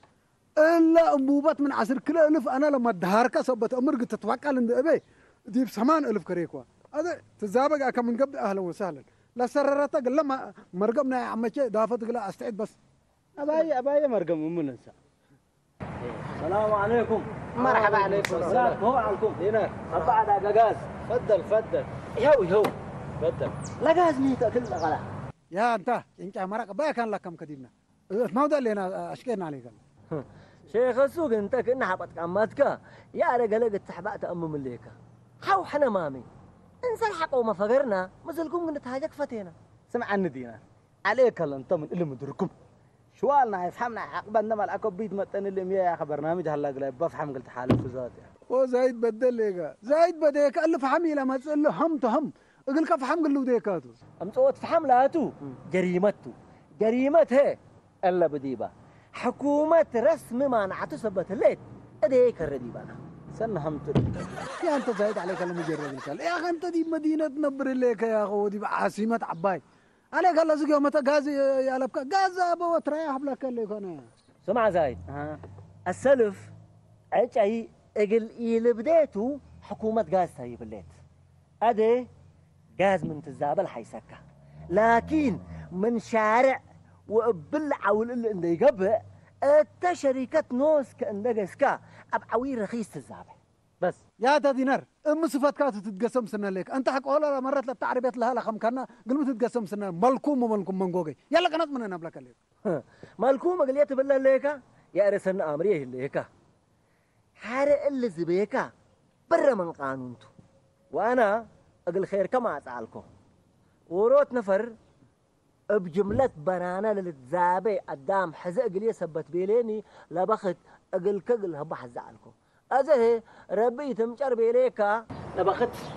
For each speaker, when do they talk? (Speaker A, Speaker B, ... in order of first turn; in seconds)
Speaker A: 0.6-12.8, 25.5-29.8, 48.5-54.0, 64.6-69.6, 70.1-74.1, 94.2-102.4
Speaker B: 13.4-14.9, 16.0-16.5, 17.5-20.2, 20.9-21.9, 23.2-23.5, 39.9-42.5, 43.2-48.3, 63.3-64.2, 75.1-75.4
Speaker C: 16.4-20.9, 22.2-22.7, 23.8-25.1, 30.1-36.3, 36.8-39.5, 54.2-63.0, 74.4-75.0, 75.9-76.5, 77.1-80.9, 81.6-82.1, 82.8-84.2, 84.7-93.3, 102.6-106.3, 107.4-108.7, 109.3-110.3, 110.9-113.1, 113.9-114.8, 115.7-125.8